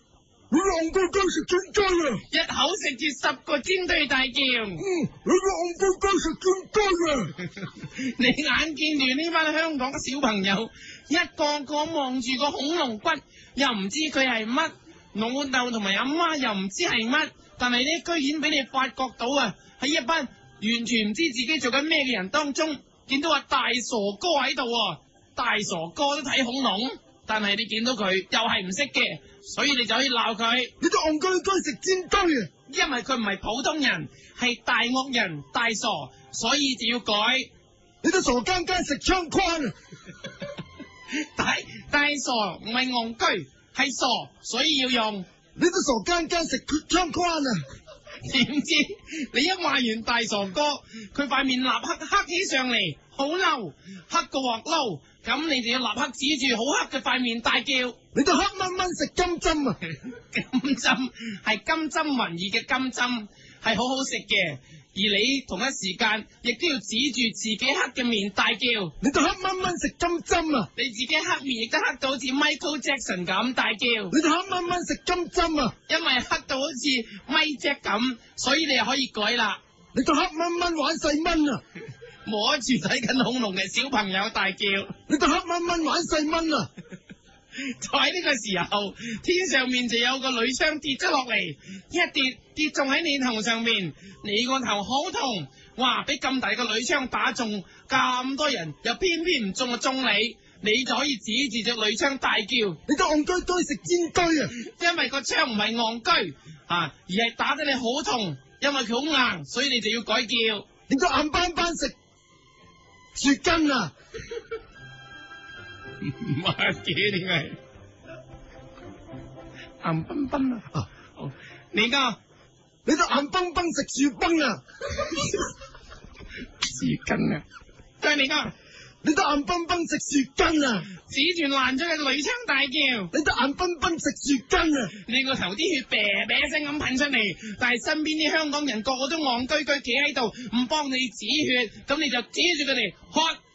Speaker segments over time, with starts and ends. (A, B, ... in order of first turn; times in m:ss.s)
0:00.5-0:02.2 A
0:02.3-0:04.8 B
0:04.8-0:07.3 A
0:07.6-0:30.7 B
0:30.8-0:32.5 A
0:32.7-0:37.5 B
0:38.0-0:39.7 A
0:41.2-0:45.2 B
0:45.6-0:47.6 A
0:48.2-0:58.0 B
0:58.1-0:59.8 A
0:59.9-1:08.9 B
1:09.0-1:10.7 A
1:10.8-1:14.1 B
1:14.1-1:15.7 A
1:15.9-1:19.6 B
1:19.9-1:21.6 A
1:22.2-1:24.9 B
1:25.1-1:26.7 A
1:27.6-1:42.8 B
1:42.9-1:44.5 A
1:44.6-1:50.6 B
1:50.9-1:51.9 A
1:53.1-1:53.9 A
1:56.0-1:57.6 B
1:59.8-2:02.2 B
2:02.8-2:04.6 A
2:06.6-2:07.4 B
2:08.0-2:08.5 B
2:09.0-2:10.9 A
2:11.0-2:13.1 B
2:13.1-2:14.9 A
2:15.0-2:23.4 B